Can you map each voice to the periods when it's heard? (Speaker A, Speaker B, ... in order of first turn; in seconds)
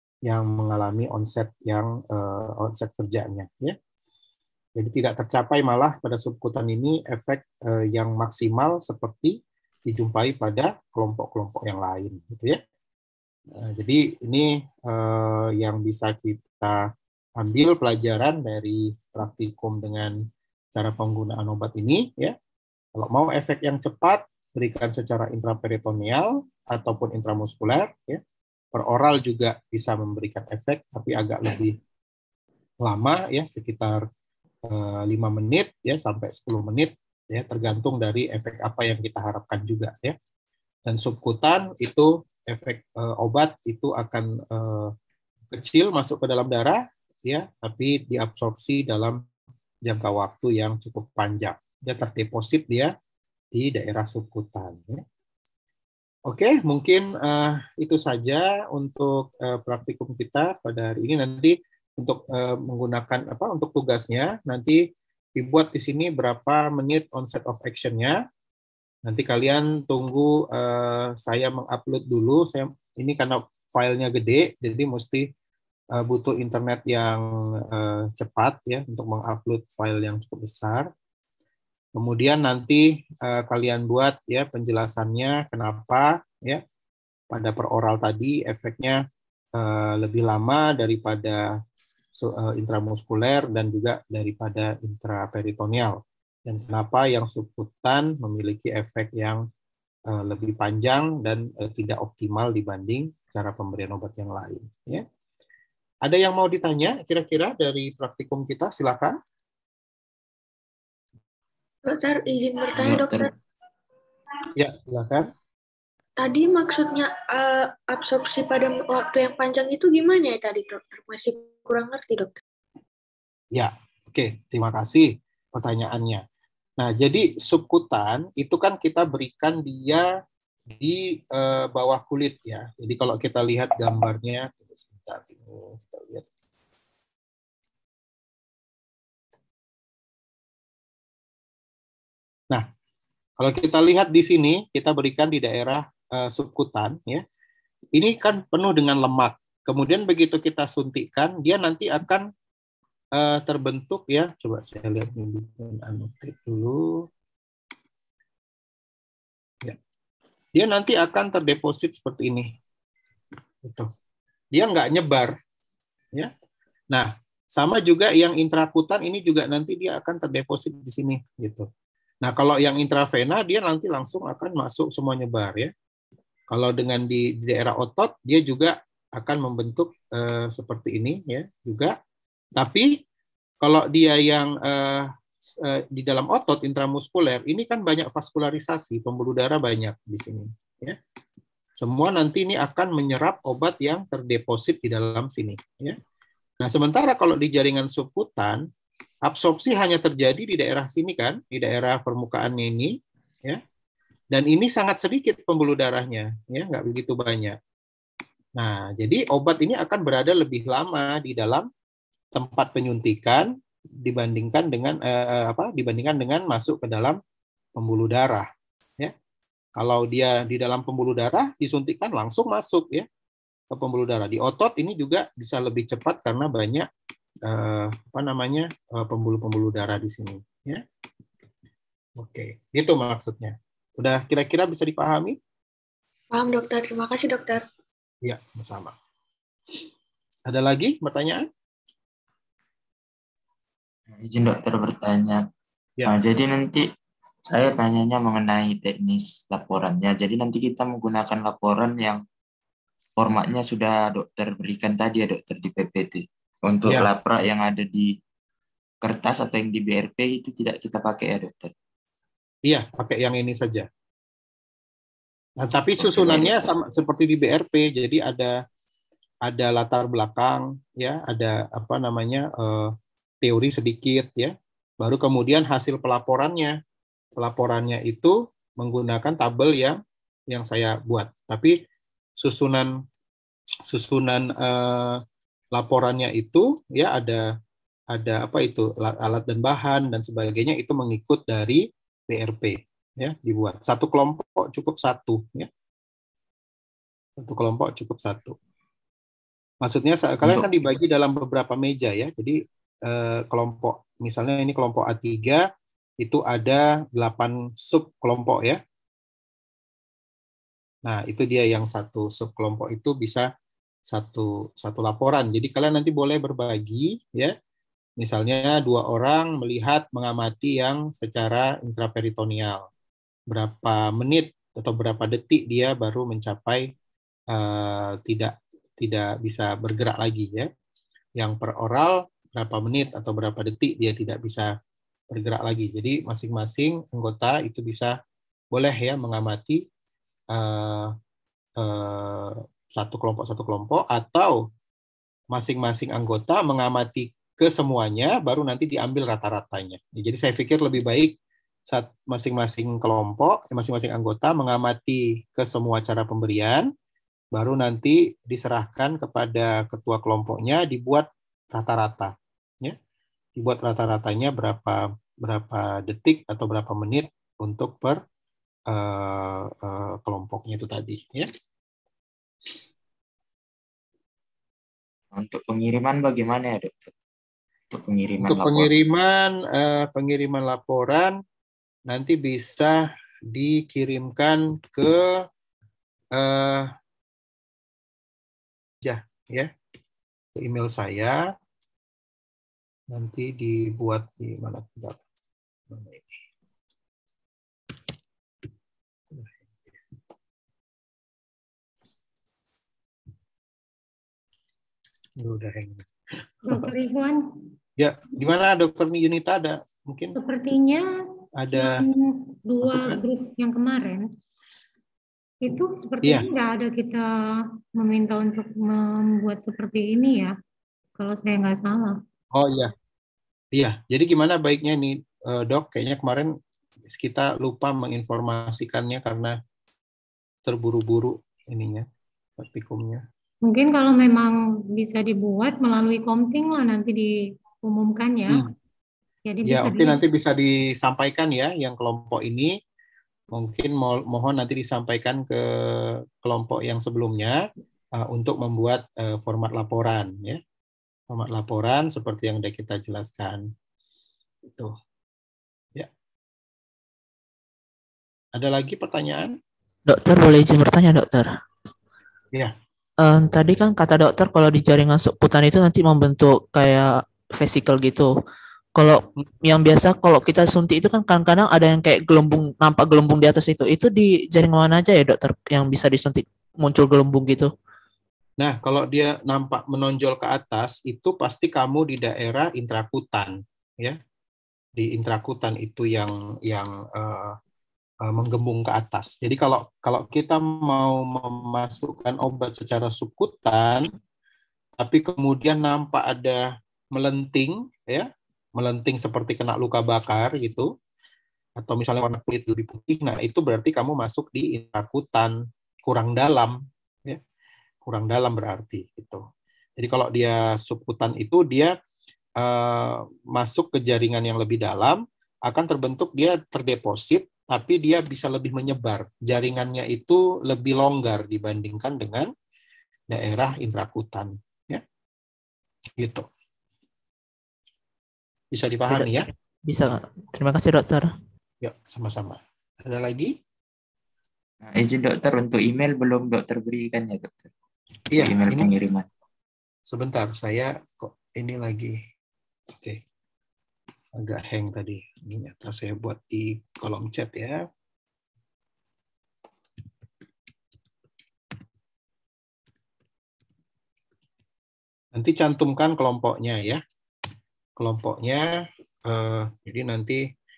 Speaker A: 0.2-3.8, 4.8-12.6, 13.5-16.8, 17.4-20.2, 20.7-22.4, 22.9-28.2, 28.7-31.8, 32.8-34.0, 34.6-40.1, 40.9-44.9, 45.5-49.2, 49.8-52.9, 53.5-55.0, 56.3-64.8, 65.3-68.2, 69.0-75.3, 75.9-80.9, 81.9-86.6, 87.3-89.0, 89.5-91.5, 92.1-99.4, 100.1-105.0, 106.0-109.2, 114.5-115.3, 123.5-126.2, 126.8-130.1, 130.7-136.2, 143.4-147.2, 147.9-152.3, 153.1-157.1, 160.5-162.5, 163.6-163.9, 164.5-165.3, 166.9-171.7, 172.2-175.7, 176.5-181.9, 182.6-182.9, 183.6-191.0, 191.8-196.0, 196.6-198.7, 199.2-203.6, 204.3-207.6, 208.6-211.7, 212.3-217.2, 217.8-218.5, 219.8-223.1, 223.7-226.9, 227.4-230.8, 232.2-235.4, 238.2-238.9, 240.5-241.4, 262.6-263.9, 265.6-268.6, 269.4-276.8, 277.4-281.8, 282.4-282.9, 283.9-285.2, 285.7-287.4, 288.1-295.7, 297.4-298.6, 299.8-305.6, 306.2-308.8, 311.0-313.5, 314.1-317.5, 318.2-322.9, 323.5-326.9, 327.5-330.7, 331.4-334.7, 335.3-338.1, 338.7-339.8, 340.5-341.1, 341.8-344.6, 345.5-351.3, 351.9-356.9, 357.5-362.9, 363.6-368.2, 368.9-371.5, 378.4-381.4, 382.1-383.0, 383.5-385.4, 386.3-386.9, 389.0-389.7, 390.6-391.4, 393.1-395.2, 395.9-396.4, 405.4-406.1, 408.0-410.4, 411.6-412.0, 412.8-413.2, 422.5-422.9, 423.7-426.5, 427.1-429.6, 430.6-432.1, 432.6-433.2, 439.6-442.7, 443.5-447.6, 448.1-450.6, 451.3-453.7, 454.7-454.9, 458.5-459.6, 478.6-484.2, 484.9-487.6, 488.2-494.1, 495.0-500.9, 501.8-507.4, 508.0-509.4, 510.0-511.9, 512.6-522.5, 523.3-525.0, 526.2-526.5, 528.7-529.5, 531.8-533.5, 538.3-538.9, 540.1-542.2, 542.9-543.2, 544.4-547.8, 555.3-557.0, 558.0-560.5
Speaker B: 111.8-113.3, 116.2-122.3, 236.3-237.6
Speaker C: 112.7-113.3, 244.1-245.4, 246.1-246.8, 247.5-252.2, 253.2-258.1, 259.0-261.7, 266.0-266.5, 300.4-300.7, 375.3-377.1, 377.9-378.9, 534.8-537.7, 538.4-539.2
Speaker D: 406.7-407.4, 410.4-411.0, 411.7-414.3, 415.6-417.3, 418.0-420.5, 421.2-422.2, 433.6-437.3, 437.8-438.6, 439.5-440.2
Speaker E: 460.1-461.5, 463.2-468.3, 468.9-477.7, 529.1-531.3